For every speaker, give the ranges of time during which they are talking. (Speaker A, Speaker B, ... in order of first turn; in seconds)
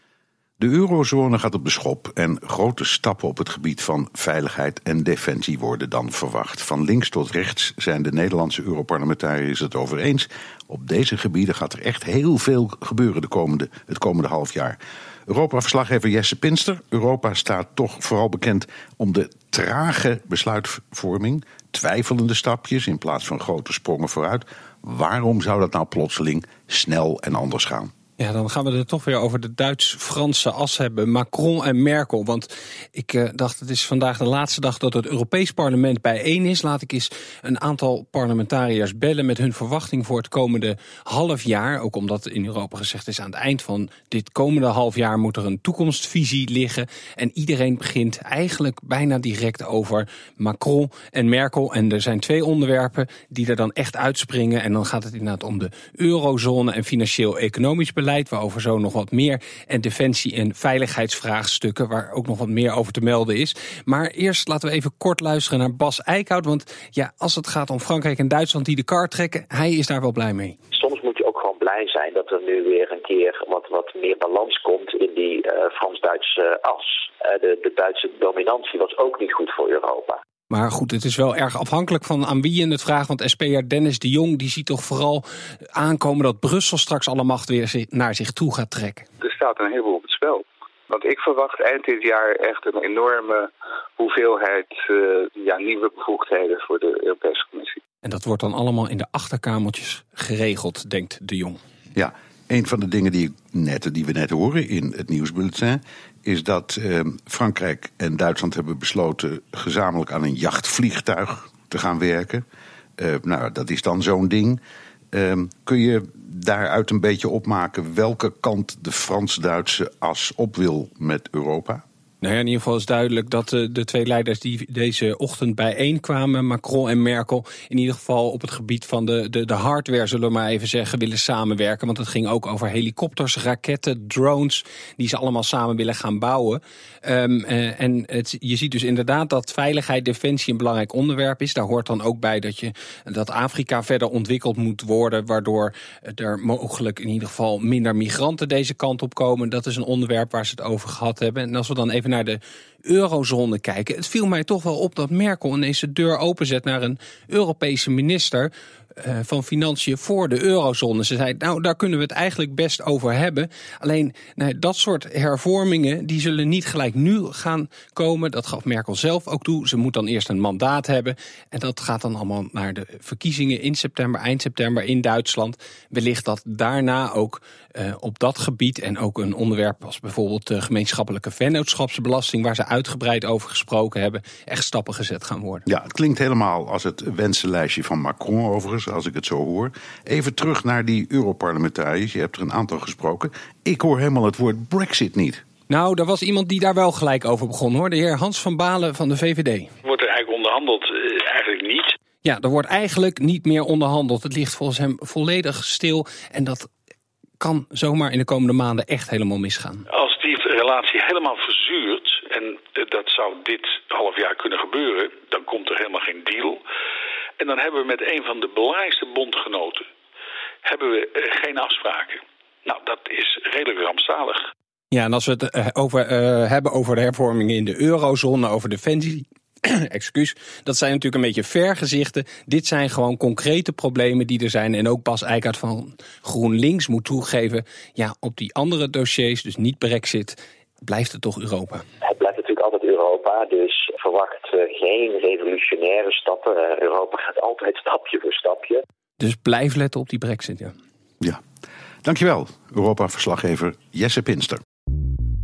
Speaker A: 0.6-27.9, 102.0-112.4, 113.0-114.6, 115.1-121.8, 185.7-195.4, 252.1-254.6
Speaker B: 28.2-70.6, 80.5-89.1, 98.0-101.6, 122.2-185.6, 195.7-199.7, 202.2-206.7, 207.4-209.9, 224.9-241.8, 249.2-250.7
Speaker C: 70.7-80.2, 242.0-248.8
Speaker D: 89.2-97.8
Speaker E: 199.8-201.9, 209.9-216.6, 217.4-219.9, 220.7-224.5